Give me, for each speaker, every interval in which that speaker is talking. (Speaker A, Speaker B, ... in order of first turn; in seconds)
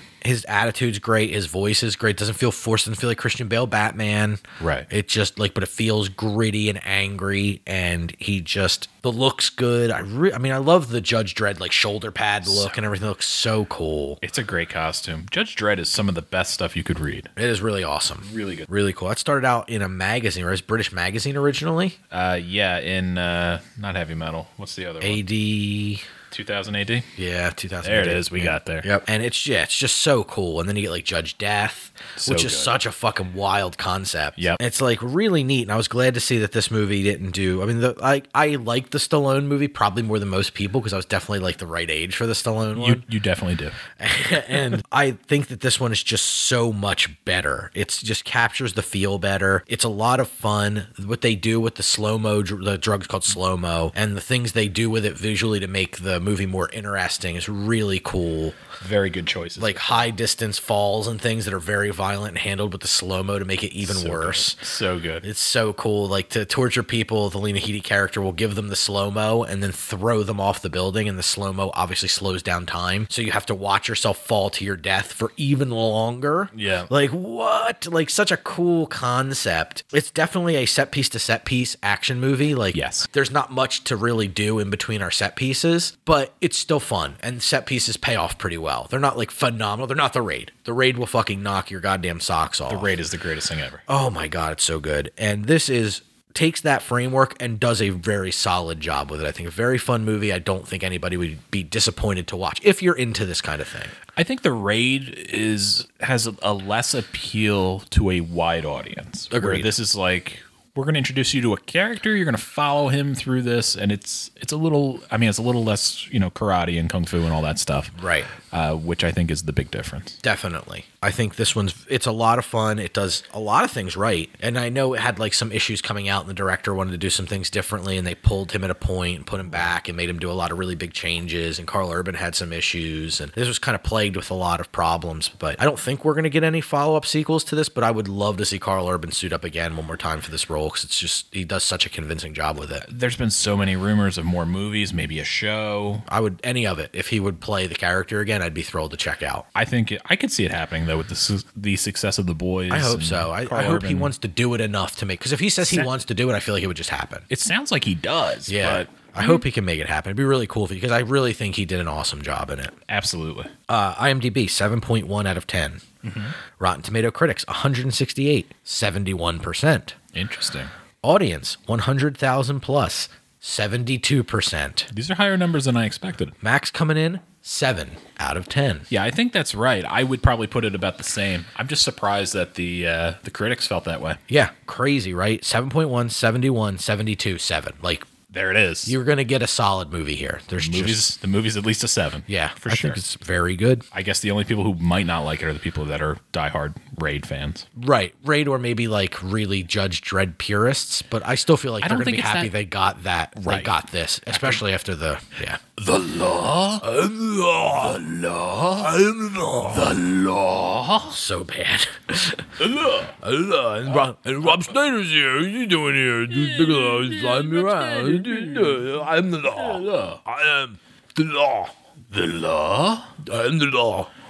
Speaker A: 0.2-14.2, 17.4-22.0, 25.0-26.0, 27.2-43.0, 44.0-58.6, 59.6-64.6, 65.2-92.9, 93.9-103.9, 109.3-109.7, 118.0-118.3, 120.2-142.8, 146.1-149.4, 152.7-157.3, 158.5-162.8, 163.7-165.8, 166.6-169.9, 171.0-174.9, 176.4-178.9, 184.3-188.1, 188.9-191.1, 192.3-193.8, 197.8-205.6, 206.8-208.1, 208.8-210.0, 211.1-221.7, 223.2-224.1
Speaker B: 4.6-4.9, 12.4-12.8, 14.2-17.3, 18.2-18.7, 22.1-25.2, 26.3-27.1, 27.8-28.9, 32.2-32.7, 42.7-43.8, 58.8-60.1, 63.8-65.3, 76.5-76.9, 82.7-83.1, 92.7-93.8, 104.2-118.0, 118.5-120.2, 142.8-146.1, 149.6-154.1, 157.3-159.4, 162.9-163.5, 166.0-166.3, 170.1-170.7, 174.9-176.4, 178.9-184.2, 188.3-189.0, 190.6-193.0, 193.9-197.7, 201.8-202.5, 203.3-203.7, 204.3-204.6, 205.8-206.9, 207.7-209.0, 209.6-211.2, 212.6-213.2, 213.9-214.7, 216.3-218.9, 219.5-220.2, 222.1-223.2